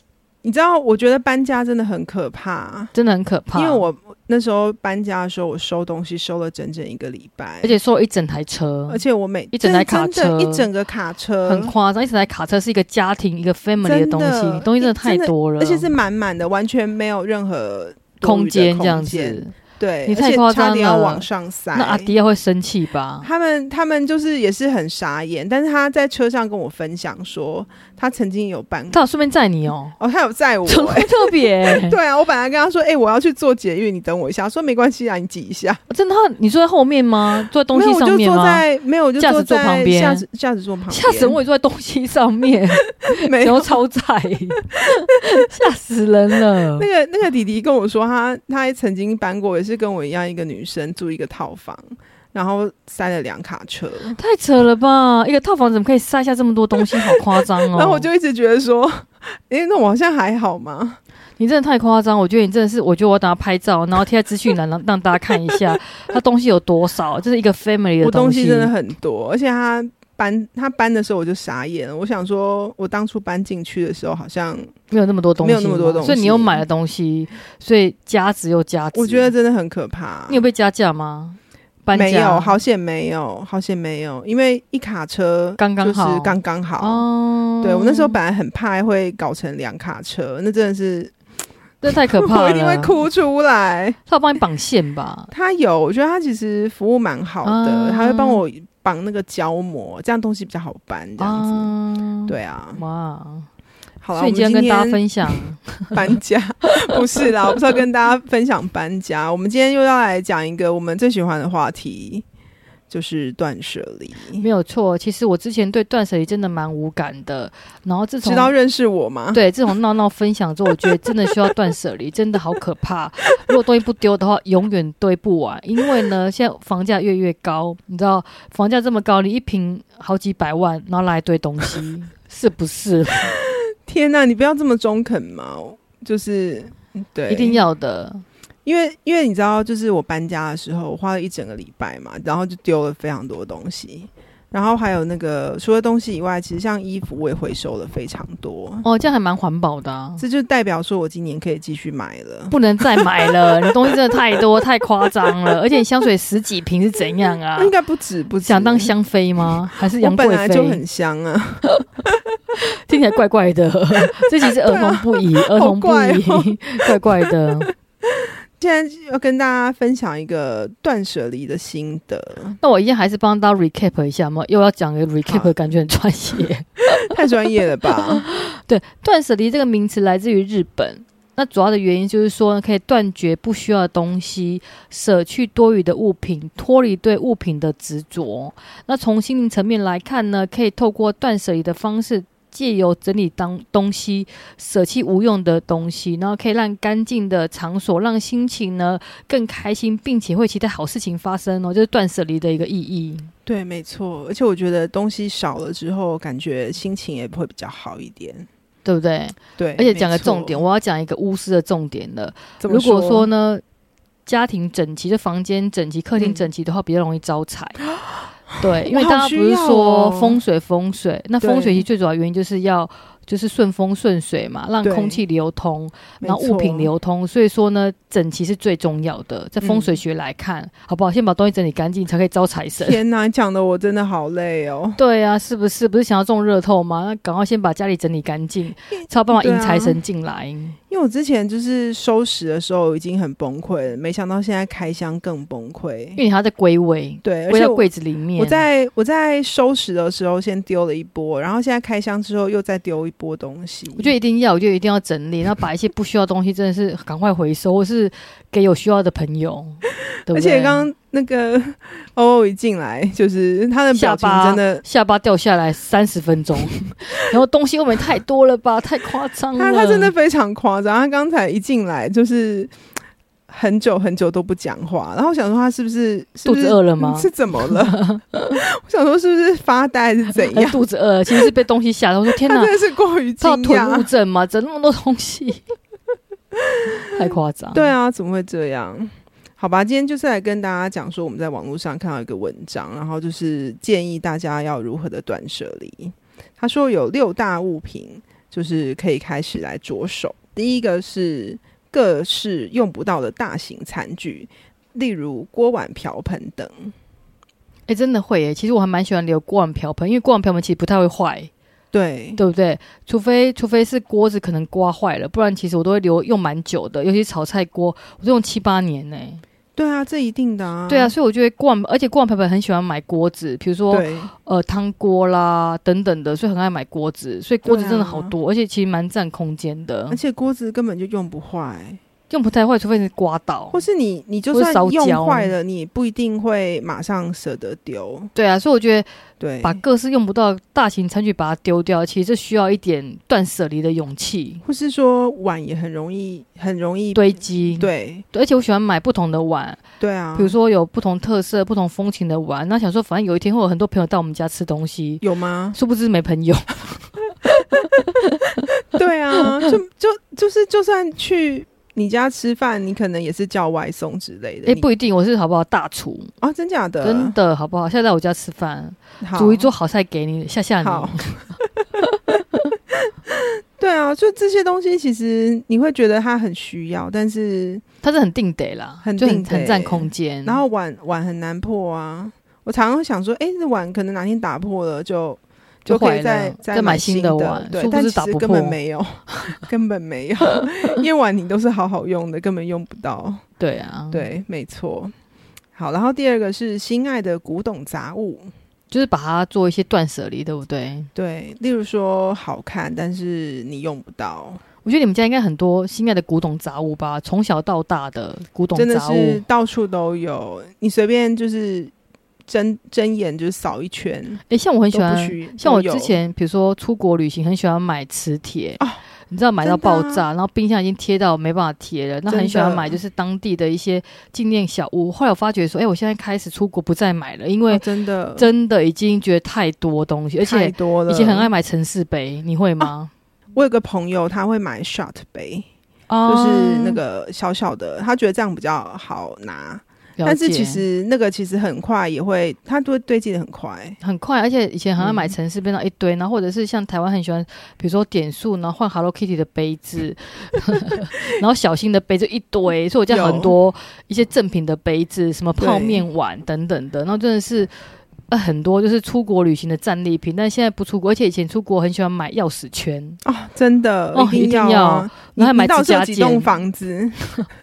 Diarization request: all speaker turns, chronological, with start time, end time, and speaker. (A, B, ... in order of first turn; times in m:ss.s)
0:00.4-0:02.9 A
0:02.9-0:03.8 B
0:03.5-0:07.8 A
0:07.6-0:10.7 B
0:08.9-0:11.7 A
0:11.4-0:15.9 B
0:13.8-0:22.1 A
0:18.2-0:19.6 B
0:20.1-0:23.3 B
0:23.2-0:29.0 A
0:28.9-0:29.9 B
0:30.0-0:35.8 A
0:30.7-0:32.0 B
0:35.9-0:38.6 B
0:37.7-0:41.4 A
0:39.2-0:40.2 B
0:40.9-0:46.9 B
0:43.0-0:43.8 A
0:46.8-0:54.2 A
0:54.2-0:58.1 B
0:56.8-1:01.0 A
1:01.4-1:08.7 B
1:08.0-1:14.7 A
1:14.9-1:19.3 B
1:15.4-1:16.6 A
1:18.9-1:20.4 A
1:20.3-1:22.6 B
1:21.9-1:27.0 A
1:25.6-1:28.2 B
1:27.6-1:31.1 A
1:31.8-1:33.0 B
1:32.1-1:34.0 A
1:34.1-1:35.3 B
1:35.3-1:41.7 A
1:37.4-1:38.4 B
1:41.2-1:43.5 B
1:42.3-1:42.8 A
1:44.0-1:45.4 A
1:44.1-1:46.0 B
1:45.9-1:52.2 A
1:52.9-1:54.4 A
1:54.4-1:58.5 B
1:58.2-1:59.4 A
1:59.3-2:13.3 B
2:13.4-2:17.6 A
2:17.3-2:18.2 B
2:18.6-2:28.8 A
2:28.8-2:30.2 B
2:30.2-2:34.4 A
2:32.5-2:37.7 B
2:37.6-2:38.9 A
2:38.4-2:40.8 B
2:39.7-2:42.1 A
2:42.6-2:47.7 B
2:44.4-2:47.3 A
2:48.1-2:52.6 A
2:52.6-2:57.2 B
2:55.3-2:55.5 A
2:56.4-2:58.2 A
2:58.0-3:23.3 B
3:23.4-3:28.5 A
3:28.8-3:33.6 B
3:29.6-3:30.6 A
3:32.6-3:33.3 A
3:34.2-3:37.8 B
3:36.2-3:36.5 A
3:38.6-3:53.0 B
3:38.9-3:40.4 A
3:41.4-3:41.8 A
3:44.8-3:45.2 A
3:46.2-3:46.9 A
3:49.6-3:50.0 A
3:52.8-3:55.0 A
3:55.0-4:00.8 B
3:59.3-4:00.0 A
4:00.9-4:06.2 A
4:06.2-4:08.6 B
4:07.2-4:14.1 A
4:14.0-4:20.8 B
4:20.3-4:24.8 A
4:23.9-4:30.1 B
4:29.6-4:32.7 A
4:33.5-4:38.0 A
4:36.4-4:38.6 B
4:38.6-4:40.8 A
4:40.4-4:42.7 B
4:42.3-4:44.1 A
4:43.4-4:45.6 B
4:46.5-5:06.9 A
4:47.0-4:47.9 B
5:07.9-5:11.5 B
5:11.9-5:12.4 A
5:12.4-5:19.4 B
5:19.8-5:21.1 A
5:20.9-5:30.2 B
5:23.9-5:24.3 A
5:27.6-5:28.3 A
5:30.1-5:32.0 A
5:32.3-5:33.8 B
5:33.7-5:38.3 A
5:34.5-5:35.5 B
5:38.3-5:39.1 B
5:39.4-5:39.8 A
5:39.6-5:44.6 B
5:44.6-5:48.2 A
5:47.1-5:49.8 B
5:50.0-5:50.6 A
5:50.4-5:55.2 B
5:55.2-5:55.8 A
5:55.7-5:58.6 B
5:58.9-6:04.8 A
5:59.3-5:59.7 B
6:04.6-6:06.3 B
6:06.4-6:07.3 A
6:07.0-6:11.2 B
6:09.2-6:09.7 A
6:10.8-6:11.5 A
6:12.9-6:17.8 A
6:18.0-6:20.6 B
6:19.0-6:33.4 A
6:25.8-6:28.8 B
6:30.5-6:30.8 B
6:33.6-6:34.3 B
6:34.1-6:35.1 A
6:35.7-6:38.5 A
6:38.9-6:41.1 B
6:41.1-6:44.6 A
6:44.8-6:49.4 B
6:48.7-6:51.9 A
6:52.4-6:54.4 A
6:54.5-7:07.8 B
6:54.9-6:56.1 A
6:59.6-7:00.2 A
7:02.3-7:03.0 A
7:07.7-7:08.5 A
7:08.4-7:13.1 B
7:10.4-7:11.5 A
7:13.5-7:15.7 A
7:16.1-7:17.0 B
7:16.2-7:24.0 A
7:20.2-7:20.8 B
7:24.0-7:37.7 B
7:25.0-7:25.4 A
7:33.1-7:33.5 A
7:35.6-7:36.0 A
7:38.3-7:43.2 B
7:43.2-7:47.5 A
7:44.1-7:46.5 B